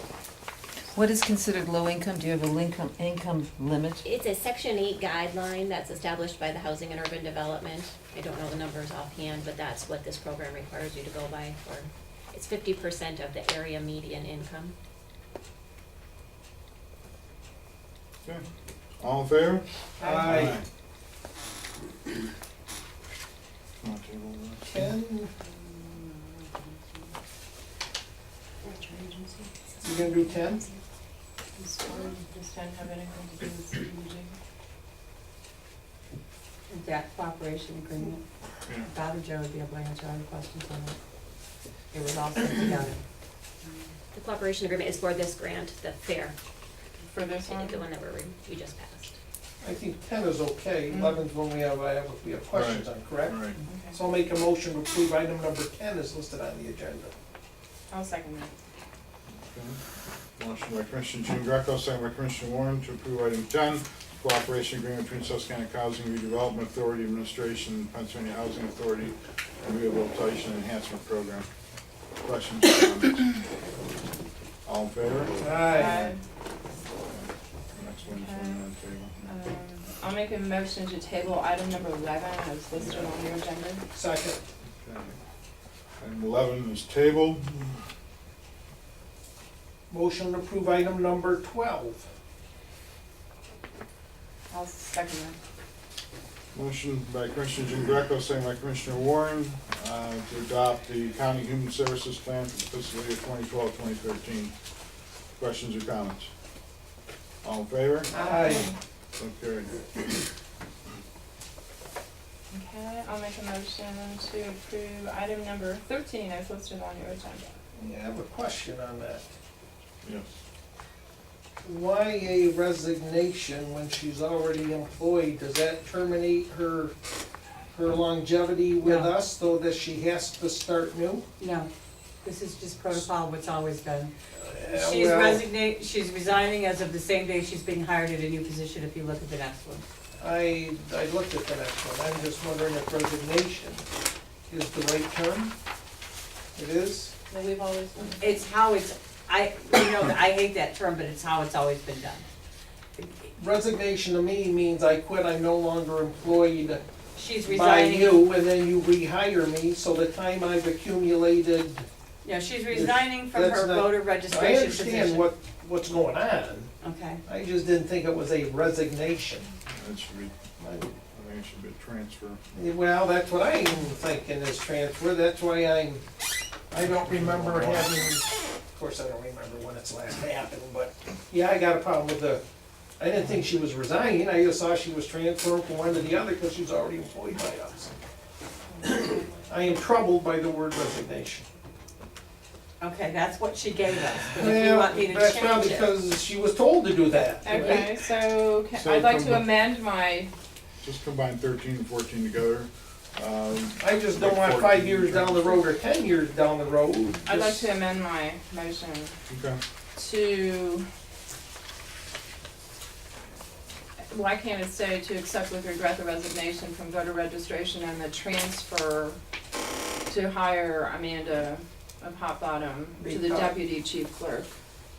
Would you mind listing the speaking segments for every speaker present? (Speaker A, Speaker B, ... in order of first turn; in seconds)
Speaker A: 0.9-4.0
Speaker B: 4.0-14.8, 44.1-46.4, 47.5-49.2
Speaker C: 19.0-19.7, 20.2-20.7, 23.8-24.9, 38.6-38.9, 52.5-53.6, 59.3-59.8, 60.4-71.5, 72.2-73.3, 74.6-76.1, 77.0-79.3, 82.8-83.1, 84.8-85.2, 86.0-87.8, 96.5-104.5, 105.3-106.3, 107.4-108.4, 109.2-110.1, 120.0-120.3, 169.7-170.4, 170.9-172.4, 176.9-178.1, 198.7-199.5, 200.8-205.6, 209.3-209.6
Speaker D: 20.0-20.6, 24.7-25.3, 29.8-30.6, 49.6-57.1, 75.4-76.0, 83.9-84.4, 89.9-92.1, 108.1-108.7, 117.7-119.3, 121.6-126.9, 127.7-131.3, 134.3-135.4, 140.2-143.8, 144.5-145.5, 146.5-147.2, 153.3-156.8, 157.4-161.9, 162.7-166.7, 167.2-169.5, 170.6-170.9, 172.5-176.0, 176.7-182.4, 183.0-187.9, 188.8-191.5, 194.3-197.9, 203.8-207.7, 223.0-223.5
Speaker E: 20.0-20.5, 25.4-26.5, 28.6-30.4, 31.6-34.4, 47.1-47.8, 50.9-51.3, 53.6-54.0, 57.9-58.5, 75.7-76.2, 78.0-78.6, 79.2-83.8, 94.5-95.4, 108.2-108.7, 112.5-117.6, 147.3-148.3, 188.7-189.5, 197.4-200.3, 207.2-209.2, 209.9-210.8, 214.1-219.2, 220.1-224.5
Speaker F: 36.7-38.2, 38.9-41.0, 41.9-43.0, 128.8-129.1, 131.4-131.7, 132.2-134.1, 134.7-139.8, 148.2-152.2, 157.1-158.2, 162.2-165.3, 166.8-167.2, 192.8-195.9